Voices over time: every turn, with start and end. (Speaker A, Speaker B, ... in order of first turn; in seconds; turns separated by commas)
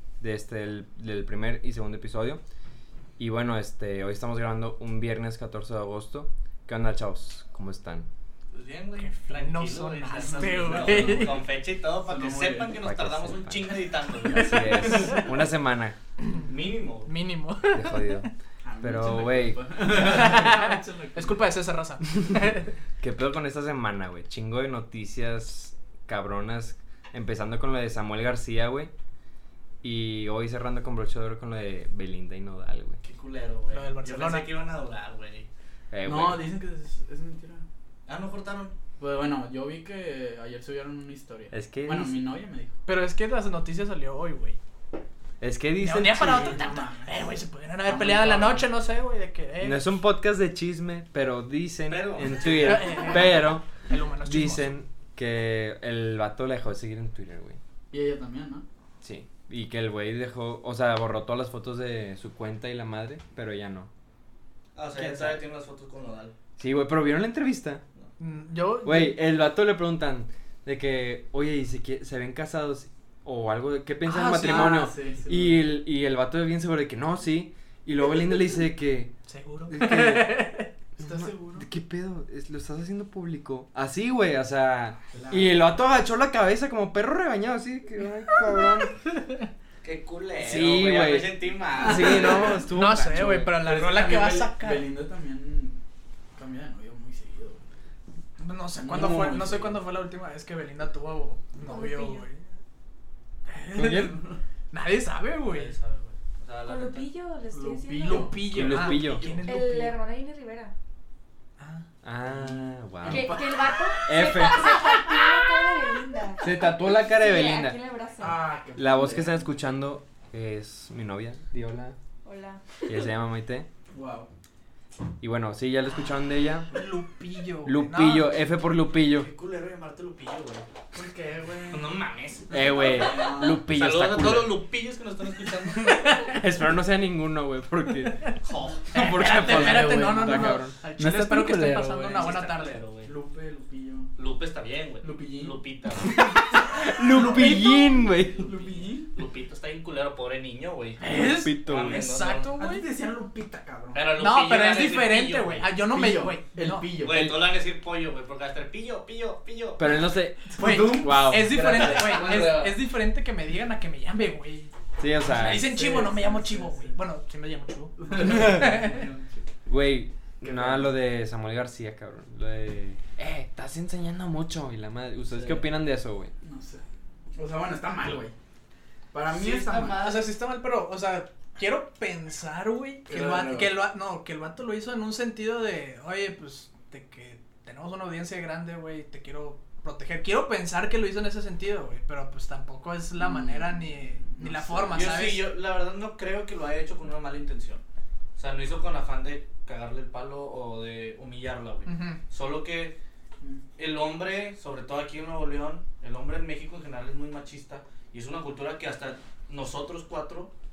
Speaker A: 0.2-2.4, Speaker A: 3.2-8.1, Speaker B: 8.5-15.0, Speaker C: 9.0-11.4, Speaker D: 10.1-11.4, Speaker D: 12.1-12.8, Speaker A: 12.8-16.0, Speaker B: 16.4-17.1, Speaker C: 17.1-18.0, Speaker A: 17.7-18.3, Speaker D: 18.6-21.4, Speaker A: 18.8-19.6, Speaker C: 19.9-22.7, Speaker A: 23.0-28.9, Speaker A: 29.8-33.0, Speaker B: 33.0-35.5, Speaker C: 33.7-34.5, Speaker A: 35.9-36.5, Speaker D: 36.0-37.6, Speaker B: 38.1-38.7, Speaker D: 39.0-42.7, Speaker A: 41.5-42.2, Speaker C: 42.9-44.6, Speaker A: 45.4-46.6, Speaker C: 45.8-49.9, Speaker D: 46.2-48.7, Speaker A: 49.6-53.7, Speaker B: 51.9-53.2, Speaker C: 52.5-54.7, Speaker A: 54.2-57.6, Speaker D: 57.9-58.6, Speaker A: 59.0-63.9, Speaker B: 64.7-66.3, Speaker A: 65.0-65.3, Speaker A: 66.6-67.8, Speaker C: 68.2-69.2, Speaker A: 68.8-79.2, Speaker C: 74.0-74.9, Speaker D: 74.3-75.6, Speaker C: 79.3-80.7, Speaker A: 79.7-80.4, Speaker D: 81.0-81.7, Speaker A: 81.0-89.0, Speaker D: 85.1-85.6, Speaker B: 89.8-92.6, Speaker A: 90.4-93.5, Speaker D: 91.7-92.6, Speaker C: 92.0-94.9, Speaker D: 93.5-95.8, Speaker D: 96.3-97.6, Speaker C: 98.4-102.4, Speaker D: 98.7-99.8, Speaker E: 101.6-102.2, Speaker C: 103.5-104.2, Speaker A: 103.7-104.2, Speaker C: 104.7-105.7, Speaker B: 105.5-107.1, Speaker E: 106.6-108.4, Speaker D: 107.5-108.8, Speaker C: 108.0-110.0, Speaker A: 108.5-109.3, Speaker B: 108.5-109.5, Speaker E: 109.5-110.7, Speaker C: 111.6-111.8, Speaker A: 112.0-113.3, Speaker D: 112.2-113.8, Speaker E: 113.0-118.4, Speaker A: 114.0-114.8, Speaker A: 116.4-117.8, Speaker D: 118.2-119.5, Speaker A: 118.8-122.0, Speaker E: 122.2-123.1, Speaker A: 122.9-123.7, Speaker D: 123.9-124.3, Speaker A: 125.2-126.7, Speaker C: 126.7-128.3, Speaker A: 127.6-129.3, Speaker B: 129.1-130.7, Speaker D: 130.9-133.6, Speaker B: 131.7-133.1, Speaker A: 132.5-134.5, Speaker B: 133.7-136.1, Speaker C: 135.9-136.4, Speaker A: 136.3-138.3, Speaker B: 138.4-139.2, Speaker A: 138.9-140.7, Speaker C: 138.9-142.8, Speaker D: 139.2-142.4, Speaker B: 142.2-143.1, Speaker D: 143.0-144.1, Speaker B: 144.2-146.2, Speaker D: 145.0-145.6, Speaker D: 146.2-149.1, Speaker A: 146.7-148.5, Speaker B: 148.1-151.0, Speaker C: 151.0-152.8, Speaker A: 151.1-152.0, Speaker B: 151.6-152.5, Speaker D: 152.6-154.1, Speaker B: 153.9-155.7, Speaker C: 154.2-156.9, Speaker D: 155.9-157.2, Speaker B: 156.9-159.8, Speaker A: 157.1-157.4, Speaker A: 159.8-161.6, Speaker D: 160.5-162.8, Speaker C: 160.6-164.7, Speaker B: 161.7-162.6, Speaker A: 165.0-165.7, Speaker C: 165.3-168.9, Speaker D: 165.4-166.9, Speaker D: 168.0-169.1, Speaker A: 168.2-168.8, Speaker B: 168.4-169.2, Speaker A: 169.7-176.3, Speaker D: 170.4-170.9, Speaker B: 175.3-175.7, Speaker D: 176.4-176.8, Speaker D: 177.3-178.3, Speaker D: 179.1-180.0, Speaker B: 179.3-180.3, Speaker C: 180.0-195.4, Speaker D: 183.1-183.8, Speaker D: 193.2-195.2, Speaker B: 194.9-197.8, Speaker B: 198.3-203.0, Speaker C: 201.8-202.2, Speaker B: 203.8-210.5